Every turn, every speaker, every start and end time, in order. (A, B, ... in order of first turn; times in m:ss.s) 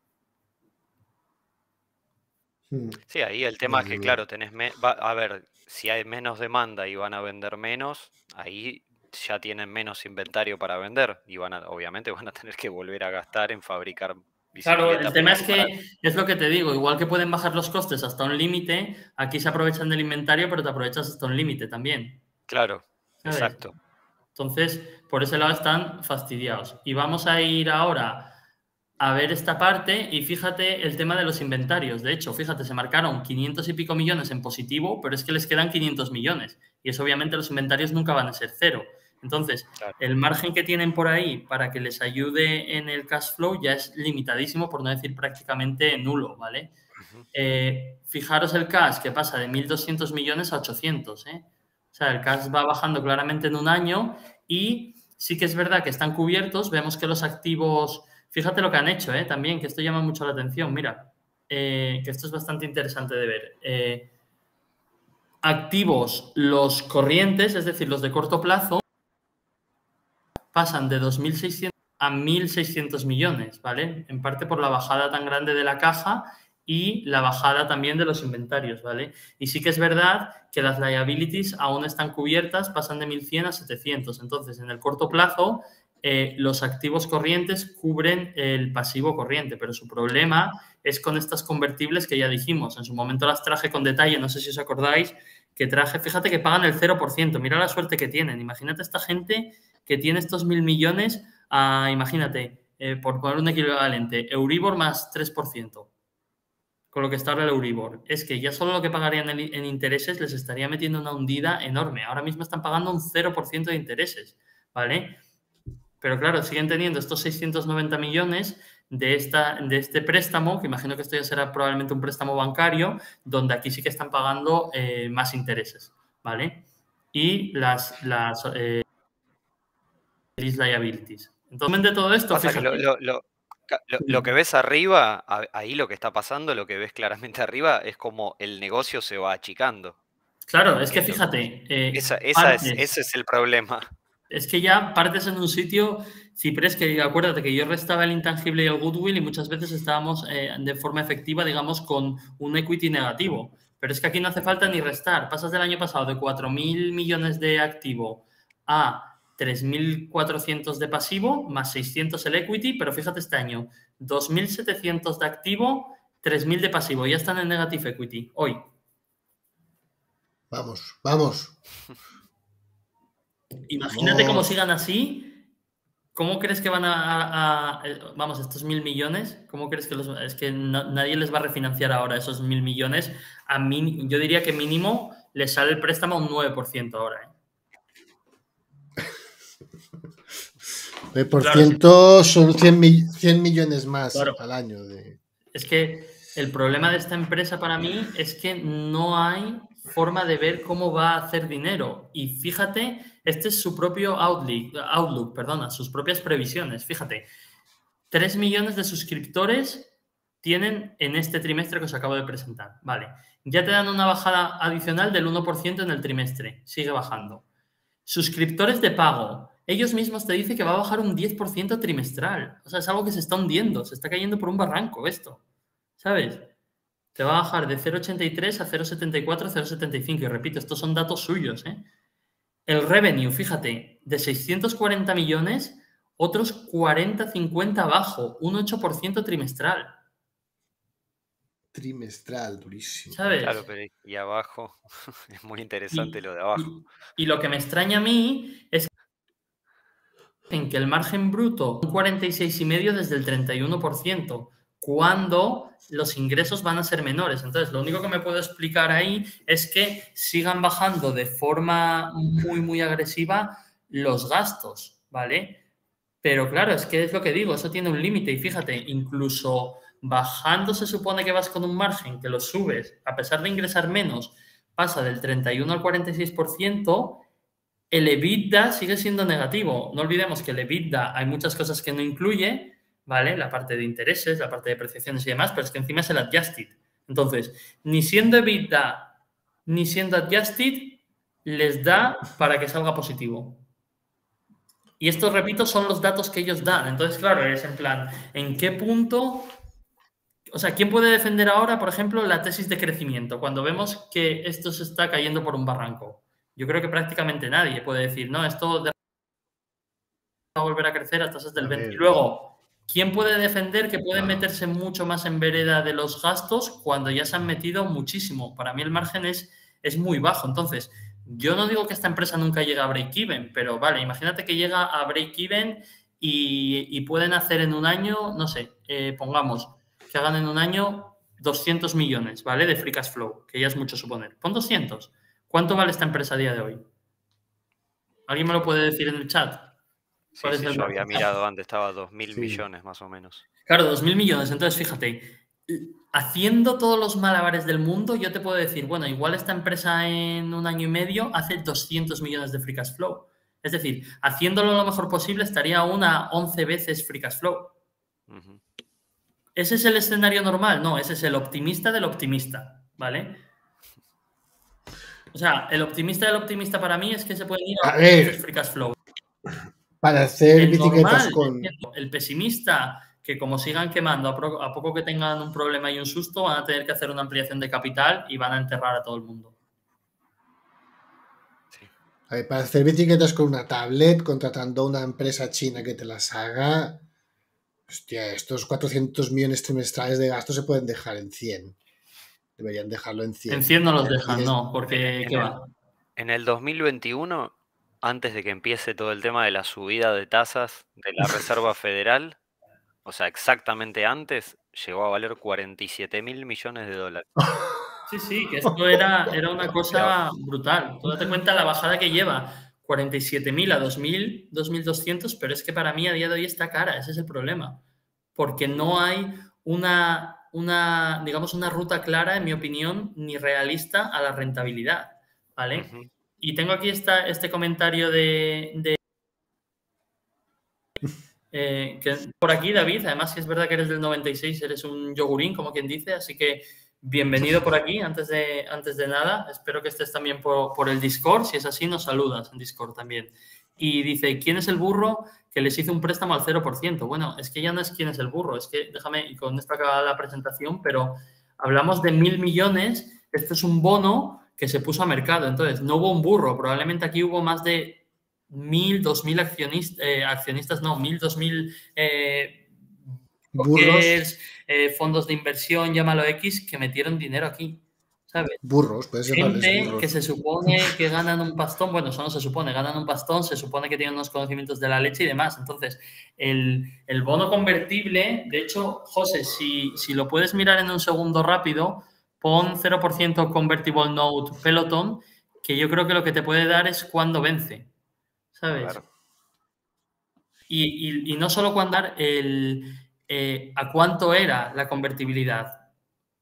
0:02.7-0:03.0 A
0:03.1-0:15.7 B
0:03.6-0:04.2 A
0:14.6-0:22.2 C
0:22.5-0:23.7 B
0:23.2-0:23.6 C
0:24.3-0:28.4 C
0:29.0-0:46.7 C
0:47.0-0:47.2 B
0:47.3-1:04.1 C
1:05.4-1:08.8 C
1:10.5-1:45.9 C
1:46.9-1:55.2 C
1:56.0-2:08.8 C
2:10.4-2:12.8 C
2:12.3-2:20.0 B
2:20.5-2:22.8 C
2:20.9-2:21.3 B
2:21.9-2:23.9 B
2:24.3-2:48.6 C
2:50.5-2:51.6 A
2:53.7-2:55.4 C
2:53.9-2:54.6 A
2:56.1-3:07.3 C
3:11.1-3:15.2 A
3:11.4-3:11.8 C
3:14.1-3:14.4 C
3:15.5-3:27.3 C
3:28.1-3:37.4 C
3:38.0-3:45.4 C
3:46.0-3:46.5 C
3:47.1-3:51.8 C
3:52.7-4:00.0 C
4:01.7-4:03.4 A
4:03.1-4:03.6 C
4:03.4-4:06.8 B
4:05.9-4:08.9 C
4:10.5-4:25.6 C
4:26.2-4:37.2 C
4:37.9-4:49.1 C
4:49.6-4:53.6 C
4:55.0-4:59.5 C
5:00.5-5:08.9 C
5:10.5-5:36.8 C
5:11.6-5:12.2 A
5:38.3-5:39.7 C
5:40.3-5:43.4 B
5:40.4-5:41.3 C
5:42.3-5:42.6 A
5:43.7-5:57.7 C
5:58.3-5:58.6 B
5:59.6-6:03.4 C
6:05.3-6:09.0 C
6:07.8-6:08.4 A
6:10.0-6:11.7 A
6:10.5-6:19.5 C
6:22.3-6:27.0 A
6:27.9-6:31.8 A
6:32.6-6:34.5 A
6:33.5-6:35.6 C
6:34.9-6:35.5 B
6:36.2-6:42.4 B
6:43.0-6:47.3 B
6:47.4-6:47.8 A
6:48.1-6:57.8 C
6:48.7-6:49.0 A
6:49.7-6:50.0 A
6:58.3-7:05.9 C
7:05.7-7:06.1 B
7:06.4-7:09.0 C
7:11.5-7:42.7 C
7:43.5-7:44.2 A
7:43.6-7:48.6 C
7:48.6-7:50.1 A
7:49.3-8:07.9 C
8:08.5-8:09.0 C
8:08.7-8:09.0 B
8:10.7-8:15.8 C